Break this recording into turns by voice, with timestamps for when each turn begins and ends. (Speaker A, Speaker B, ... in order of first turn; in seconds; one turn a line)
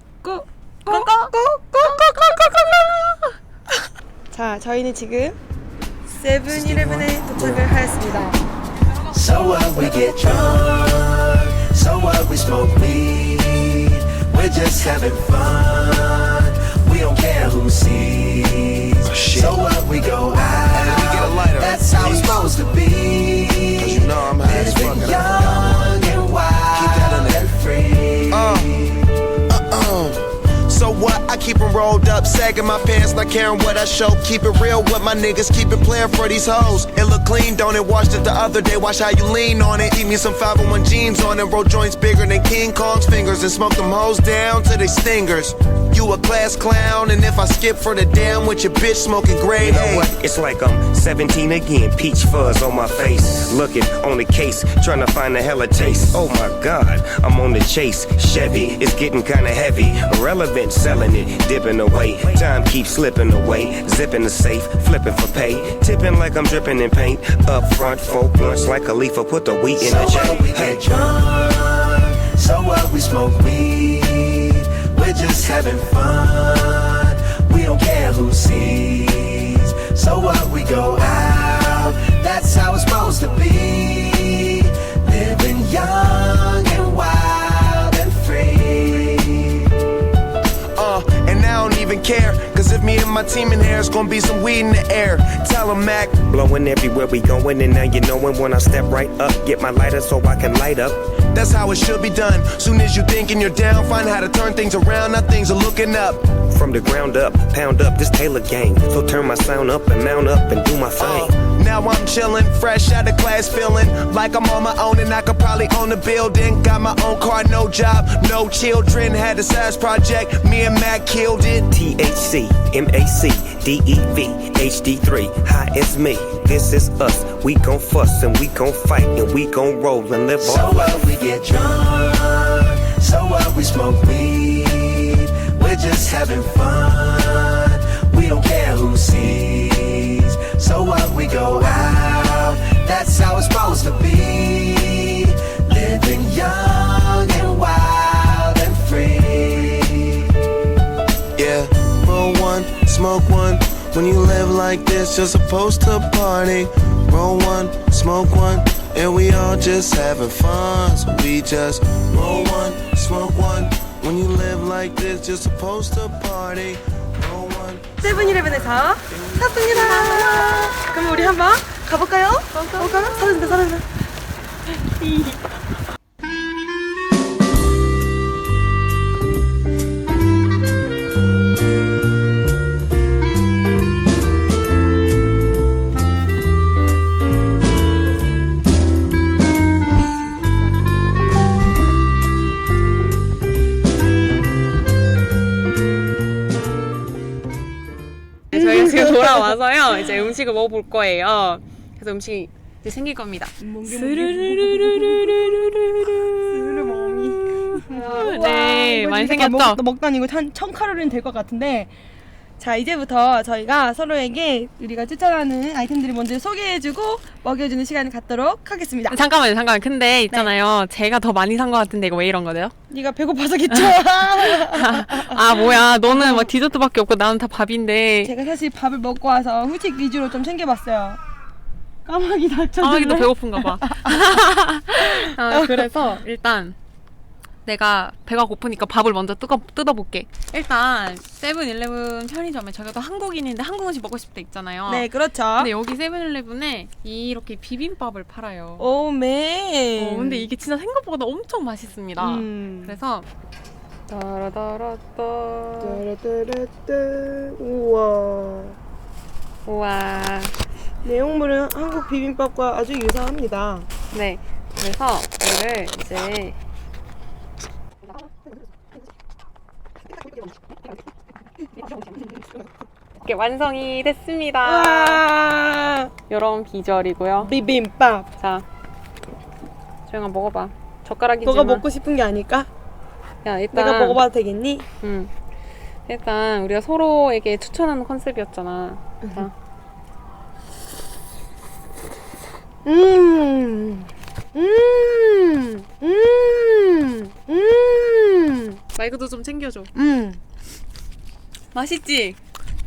Speaker A: 0.2-3.0
Speaker B: 0.9-2.5
Speaker A: 4.3-5.4
Speaker A: 6.1-8.4
Speaker C: 6.5-7.6
Speaker D: 9.1-29.1
Speaker C: 19.0-19.7
Speaker C: 20.7-22.5
Speaker C: 23.8-26.2
Speaker C: 26.7-27.5
Speaker C: 28.3-28.9
Speaker C: 29.5-50.1
Speaker E: 49.6-70.8
Speaker D: 69.8-89.7
Speaker C: 70.1-70.8
Speaker C: 90.7-96.3
Speaker E: 96.2-101.0
Speaker C: 101.3-106.4
Speaker E: 106.5-111.3
Speaker C: 110.9-121.7
Speaker E: 121.7-130.9
Speaker D: 130.4-150.3
Speaker C: 151.3-168.1
Speaker A: 168.0-173.8
Speaker B: 169.3-171.3
Speaker B: 172.5-173.7
Speaker B: 174.8-175.4
Speaker B: 198.5-209.8
Speaker A: 198.5-199.5
Speaker A: 203.6-205.7
Speaker A: 206.4-211.9
Speaker A: 212.6-219.2
Speaker B: 219.1-222.7
Speaker A: 222.9-226.5
Speaker B: 223.7-228.3
Speaker A: 228.2-231.2
Speaker A: 232.1-234.2
Speaker B: 232.8-236.8
Speaker A: 235.0-235.9
Speaker B: 237.7-248.9
Speaker A: 244.8-245.7
Speaker A: 248.8-250.5
Speaker B: 250.0-253.3
Speaker A: 252.2-253.0
Speaker B: 254.1-256.0
Speaker A: 255.8-258.8
Speaker B: 259.6-260.6
Speaker A: 261.0-263.9
Speaker B: 264.1-266.6
Speaker B: 273.2-275.2
Speaker A: 274.6-276.1
Speaker B: 276.3-277.5
Speaker A: 277.4-278.3
Speaker B: 278.4-278.6
Speaker B: 280.1-281.9
Speaker A: 281.4-282.7
Speaker B: 283.4-284.2
Speaker A: 283.7-284.9
Speaker B: 285.0-285.3
Speaker B: 286.1-289.5
Speaker A: 292.9-298.8
Speaker B: 298.9-299.9
Speaker A: 299.9-300.4
Speaker B: 301.7-302.4